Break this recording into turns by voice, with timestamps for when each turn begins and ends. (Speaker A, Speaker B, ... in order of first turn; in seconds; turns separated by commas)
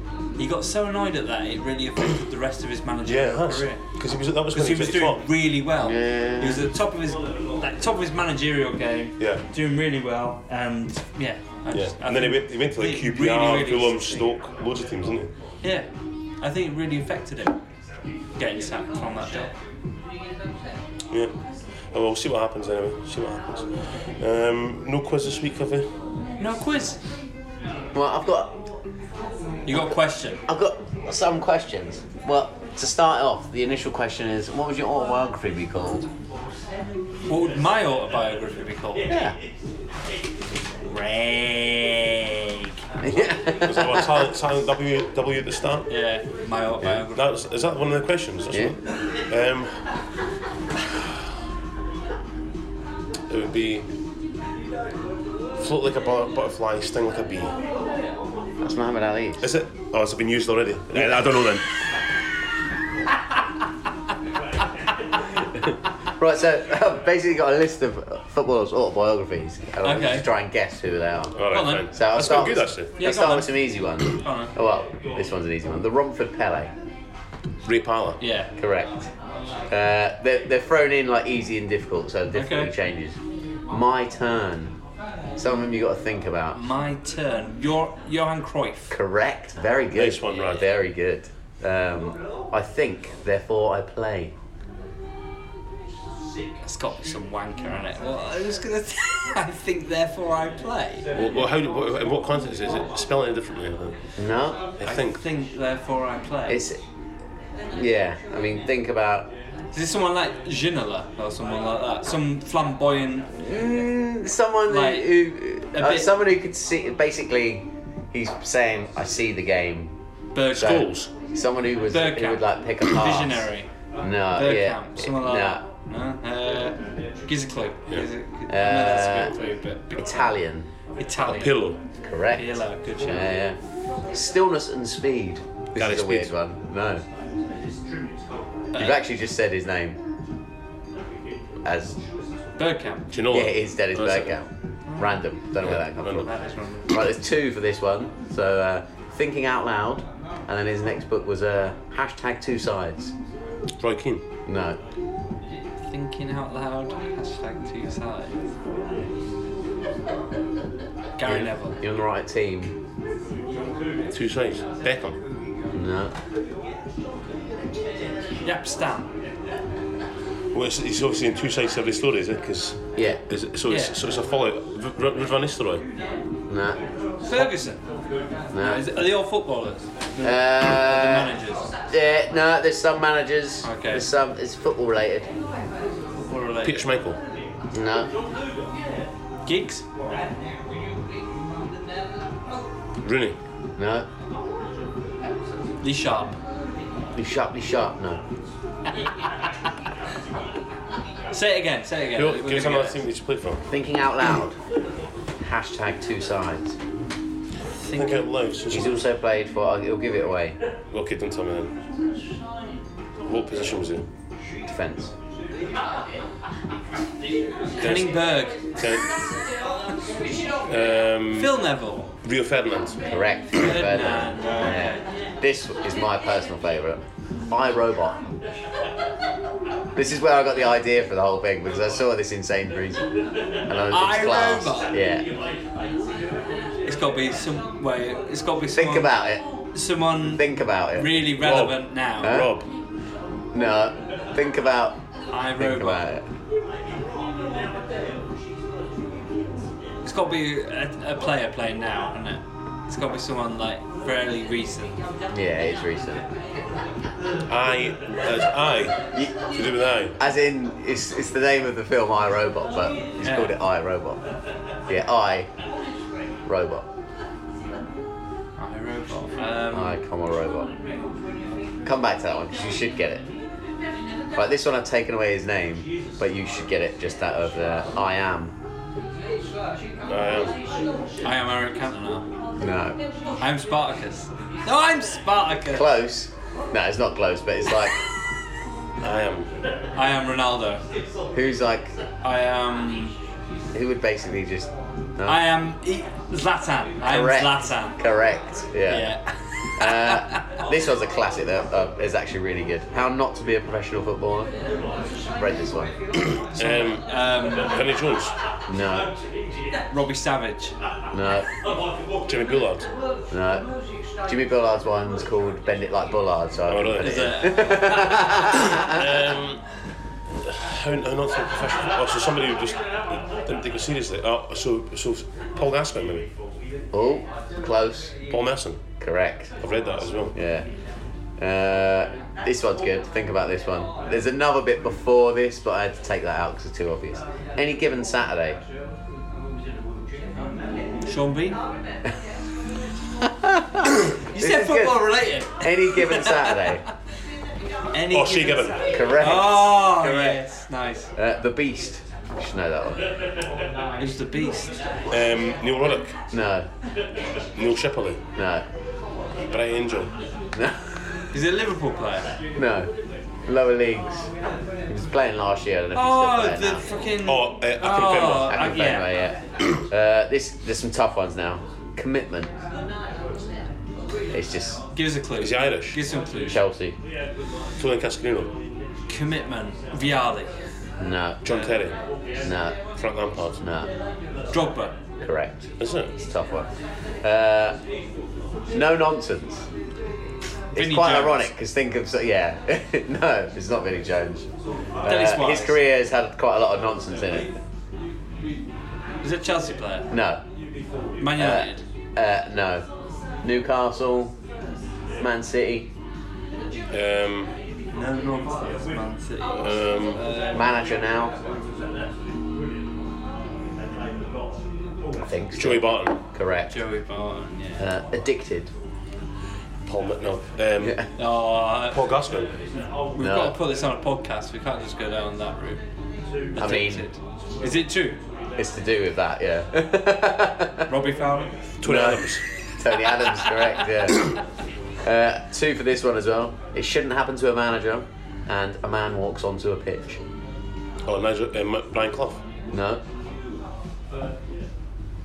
Speaker A: 0.4-3.8, Speaker B: 3.1-5.3, Speaker A: 4.5-14.2, Speaker C: 5.8-6.7, Speaker B: 11.7-15.3, Speaker A: 16.4-17.6, Speaker A: 18.4-19.5, Speaker B: 21.9-23.7, Speaker B: 24.2-25.9, Speaker A: 26.4-27.0, Speaker C: 27.9-28.6, Speaker A: 29.7-30.4, Speaker C: 29.7-36.1, Speaker A: 37.3-39.1, Speaker C: 39.1-39.4, Speaker A: 40.9-42.7, Speaker C: 43.0-44.2, Speaker B: 43.6-45.9, Speaker A: 45.9-47.2, Speaker B: 47.1-49.8, Speaker B: 53.3-53.9, Speaker B: 55.6-57.6, Speaker C: 58.6-59.5, Speaker B: 59.4-61.7, Speaker C: 60.9-61.2, Speaker C: 66.2-71.4, Speaker A: 69.8-70.3, Speaker B: 71.4-72.9, Speaker A: 71.5-71.9, Speaker C: 71.9-76.7, Speaker A: 73.0-74.5, Speaker B: 77.7-78.2, Speaker A: 78.2-78.5, Speaker C: 78.6-79.1, Speaker C: 79.7-83.2, Speaker A: 82.3-82.7, Speaker C: 83.7-84.7, Speaker C: 85.4-86.6, Speaker A: 86.5-89.0, Speaker C: 88.9-94.3, Speaker B: 89.9-90.7, Speaker A: 96.6-101.1, Speaker B: 101.2-104.0, Speaker C: 104.2-104.6, Speaker B: 104.8-105.2, Speaker A: 104.8-106.6, Speaker C: 106.5-106.8, Speaker C: 107.7-109.3, Speaker A: 109.7-113.6, Speaker C: 113.3-119.9, Speaker A: 114.7-115.2, Speaker A: 115.7-116.1, Speaker A: 120.3-120.8, Speaker B: 120.5-121.1, Speaker C: 120.6-123.5, Speaker A: 121.9-123.7, Speaker C: 124.0-125.6, Speaker A: 124.3-130.3, Speaker C: 128.5-129.3, Speaker C: 130.0-130.7, Speaker A: 131.0-131.6, Speaker B: 131.2-131.8, Speaker C: 132.0-133.6, Speaker A: 132.3-133.3, Speaker C: 134.1-137.0, Speaker B: 135.8-136.3, Speaker A: 138.7-139.0, Speaker C: 138.8-140.0, Speaker C: 141.6-142.0, Speaker A: 142.6-143.1, Speaker B: 143.1-144.3, Speaker C: 143.3-146.3, Speaker A: 144.9-145.2, Speaker B: 145.6-146.3, Speaker A: 146.1-146.9, Speaker C: 146.9-153.1, Speaker B: 153.8-154.2, Speaker C: 154.5-154.8, Speaker A: 155.9-158.4, Speaker A: 161.2-161.8, Speaker C: 161.2-162.7, Speaker B: 164.1-165.2, Speaker C: 165.7-166.1, Speaker A: 168.4-169.1, Speaker B: 170.5-175.8, Speaker A: 173.7-173.9, Speaker C: 176.5-176.8, Speaker A: 177.2-177.8, Speaker C: 178.5-178.9, Speaker A: 178.6-181.7, Speaker C: 180.2-181.3, Speaker C: 181.9-185.3, Speaker A: 183.6-184.1, Speaker A: 186.2-186.8, Speaker B: 186.6-187.2, Speaker C: 187.7-188.1, Speaker A: 189.5-189.8, Speaker B: 193.0-193.4, Speaker C: 193.8-194.1, Speaker A: 195.8-196.4, Speaker C: 197.2-198.2, Speaker A: 201.3-203.0, Speaker B: 202.2-203.6, Speaker C: 203.7-204.6, Speaker C: 205.4-206.8, Speaker A: 207.8-208.2, Speaker B: 207.9-209.0, Speaker C: 208.7-210.6, Speaker B: 210.9-211.7, Speaker B: 213.3-214.0, Speaker C: 214.7-215.1, Speaker A: 217.8-218.6, Speaker B: 217.8-218.1, Speaker B: 218.8-219.1, Speaker B: 220.7-221.6, Speaker A: 221.3-222.1, Speaker B: 222.2-223.0, Speaker C: 223.1-228.3, Speaker A: 223.6-225.0, Speaker C: 229.9-233.1, Speaker C: 233.7-235.3, Speaker A: 233.9-234.9, Speaker A: 236.9-239.1, Speaker C: 238.7-239.4, Speaker A: 239.7-242.4, Speaker C: 240.2-241.2, Speaker B: 241.3-242.7, Speaker C: 242.2-242.5, Speaker C: 243.5-245.0, Speaker A: 245.3-246.1, Speaker C: 245.6-246.3, Speaker A: 250.1-255.0, Speaker C: 255.3-256.2, Speaker B: 257.5-259.0, Speaker B: 259.5-260.1, Speaker C: 260.2-264.2, Speaker A: 263.2-263.6, Speaker C: 264.9-265.5, Speaker C: 266.5-266.9, Speaker A: 268.6-270.0, Speaker C: 269.7-270.7, Speaker C: 271.9-273.3, Speaker C: 274.4-278.5, Speaker B: 280.1-280.6, Speaker A: 281.2-282.3, Speaker C: 282.6-283.0, Speaker A: 283.4-285.9, Speaker C: 285.7-288.0, Speaker B: 289.0-289.5, Speaker A: 290.0-290.8, Speaker C: 291.3-291.9, Speaker A: 292.2-293.1, Speaker C: 293.7-295.4, Speaker A: 295.3-298.0, Speaker C: 297.0-299.2, Speaker A: 298.9-300.4, Speaker C: 299.8-304.5, Speaker C: 305.4-305.9, Speaker B: 306.2-308.3, Speaker A: 306.6-307.8, Speaker C: 308.7-309.1, Speaker A: 309.9-310.7, Speaker C: 311.1-311.5, Speaker B: 312.3-312.9, Speaker C: 313.3-313.7, Speaker C: 314.3-319.1, Speaker B: 316.7-317.4, Speaker A: 317.0-318.3, Speaker B: 318.5-319.6, Speaker B: 320.4-326.3, Speaker C: 326.9-328.2, Speaker B: 328.3-328.8, Speaker C: 329.0-329.5, Speaker B: 329.6-330.4, Speaker C: 330.3-330.7, Speaker C: 331.4-338.6, Speaker A: 340.4-341.6, Speaker C: 343.2-346.8, Speaker A: 344.3-346.8, Speaker A: 347.9-351.1, Speaker B: 348.1-349.0, Speaker C: 348.9-350.4, Speaker C: 351.2-353.0, Speaker A: 354.0-354.8, Speaker B: 355.1-356.2, Speaker C: 356.3-356.7, Speaker B: 357.6-358.2, Speaker C: 358.4-358.6, Speaker B: 359.5-360.1, Speaker C: 360.6-361.0, Speaker A: 361.3-362.3, Speaker C: 362.6-362.9, Speaker C: 363.5-364.3, Speaker C: 364.9-366.9, Speaker A: 365.9-369.1, Speaker B: 367.2-368.7, Speaker C: 368.4-372.5, Speaker C: 374.3-374.8, Speaker A: 374.9-376.6, Speaker B: 375.4-376.0, Speaker C: 376.4-377.0, Speaker B: 377.8-378.5, Speaker A: 379.1-380.5, Speaker C: 381.0-381.4, Speaker B: 381.4-381.9, Speaker A: 381.5-381.7, Speaker C: 382.4-382.8, Speaker B: 383.0-383.6, Speaker C: 383.6-383.9, Speaker A: 384.5-384.9, Speaker C: 385.2-386.7, Speaker B: 385.8-386.1, Speaker C: 387.2-387.8, Speaker C: 388.7-389.7, Speaker C: 390.7-394.5, Speaker A: 390.8-391.5, Speaker C: 395.0-397.5, Speaker A: 395.0-395.8, Speaker A: 399.2-400.1, Speaker C: 400.1-400.4, Speaker A: 401.2-401.8, Speaker C: 401.4-402.9, Speaker C: 403.4-404.3, Speaker C: 405.2-405.9, Speaker B: 406.9-407.5, Speaker A: 407.9-410.7, Speaker B: 409.6-410.2, Speaker C: 410.5-411.4, Speaker C: 415.2-416.8, Speaker B: 415.6-416.2, Speaker A: 416.7-417.8, Speaker C: 417.8-418.7, Speaker B: 419.9-421.0, Speaker A: 421.2-422.0, Speaker B: 421.9-422.5, Speaker A: 423.1-425.8, Speaker C: 423.2-423.6, Speaker A: 426.5-428.2, Speaker C: 426.6-427.1, Speaker C: 428.6-430.9, Speaker A: 430.9-431.5, Speaker B: 431.8-432.4, Speaker C: 431.8-434.4, Speaker C: 435.0-440.2, Speaker B: 441.1-442.4, Speaker C: 442.7-443.0